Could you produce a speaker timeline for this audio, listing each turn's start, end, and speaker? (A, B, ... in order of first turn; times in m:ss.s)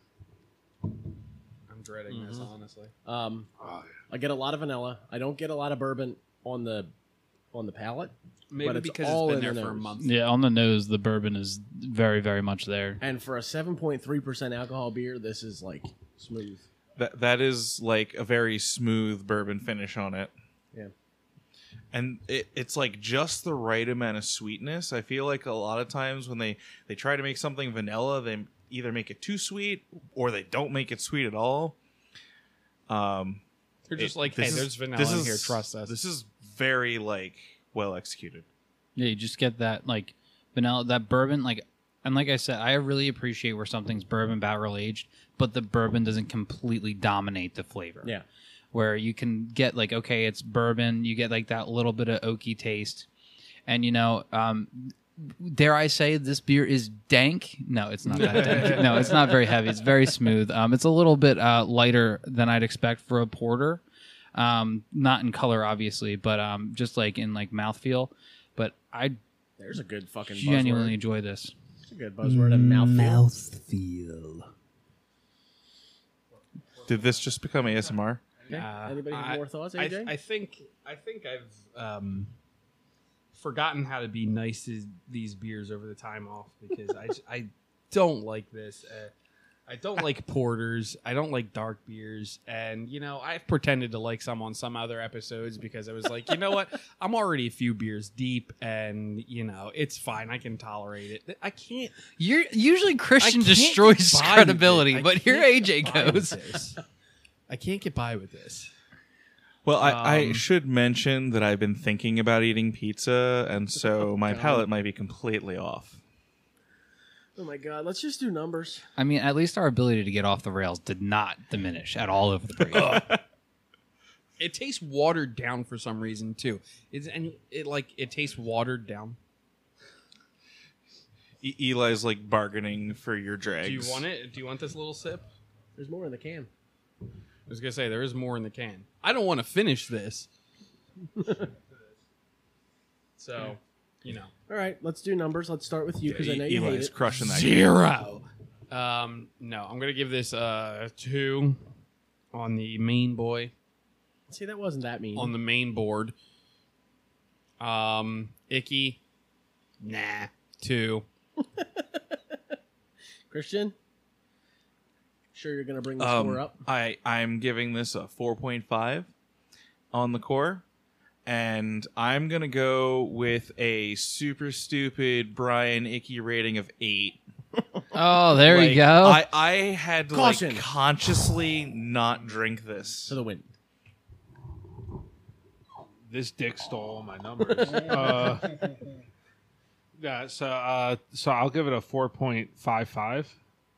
0:01.7-0:02.9 A
0:03.1-0:03.5 B
0:03.6-0:03.9 C
0:04.1-0:06.9 B
0:07.5-0:10.0 B
0:08.5-0:10.1 A
0:10.0-0:13.0 D
0:13.0-0:16.7 B
0:17.0-0:20.3 E
0:21.9-0:31.8 E
0:32.9-0:33.4 E
0:33.9-0:36.0 A
0:34.0-0:38.5 E
0:39.0-0:48.1 D
0:48.7-0:53.1 D
0:53.7-1:03.8 D
0:58.4-0:58.8 A
1:04.4-1:09.2 D
1:09.6-1:11.0 B
1:10.3-1:11.5 D
1:11.8-1:13.2 B
1:12.2-1:14.5 D
1:16.9-1:18.2 E
1:18.5-1:20.1 B
1:18.5-1:22.3 A
1:23.3-1:29.1 A
1:29.7-1:42.0 A
1:42.2-1:46.5 D
1:43.2-1:46.8 A
1:47.5-1:48.7 A
1:49.6-1:56.0 E
1:49.8-1:50.5 A
1:54.2-1:54.7 B
1:57.4-1:58.8 B
1:59.0-2:03.1 D
2:02.7-2:03.2 A
2:04.4-2:09.2 A
2:11.4-2:14.0 E
2:13.6-2:15.3 A
2:15.8-2:16.5 B
2:17.5-2:20.3 A
2:21.2-2:21.5 B
2:23.2-2:24.3 A
2:24.5-2:26.9 B
2:26.1-2:27.6 E
2:27.1-2:31.6 A
2:32.3-2:33.5 A
2:34.3-2:35.4 B
2:35.2-2:36.1 A
2:37.6-2:39.0 A
2:39.8-2:41.0 A
2:41.4-2:42.4 B
2:43.3-2:43.8 B
2:45.3-2:46.6 B
2:46.0-2:49.1 E
2:49.9-2:50.6 E
2:51.3-2:57.2 E
2:57.9-2:59.2 D
2:58.4-3:03.2 E
3:00.1-3:00.7 B
3:03.1-3:03.5 B
3:06.1-3:08.6 C
3:10.0-3:13.4 C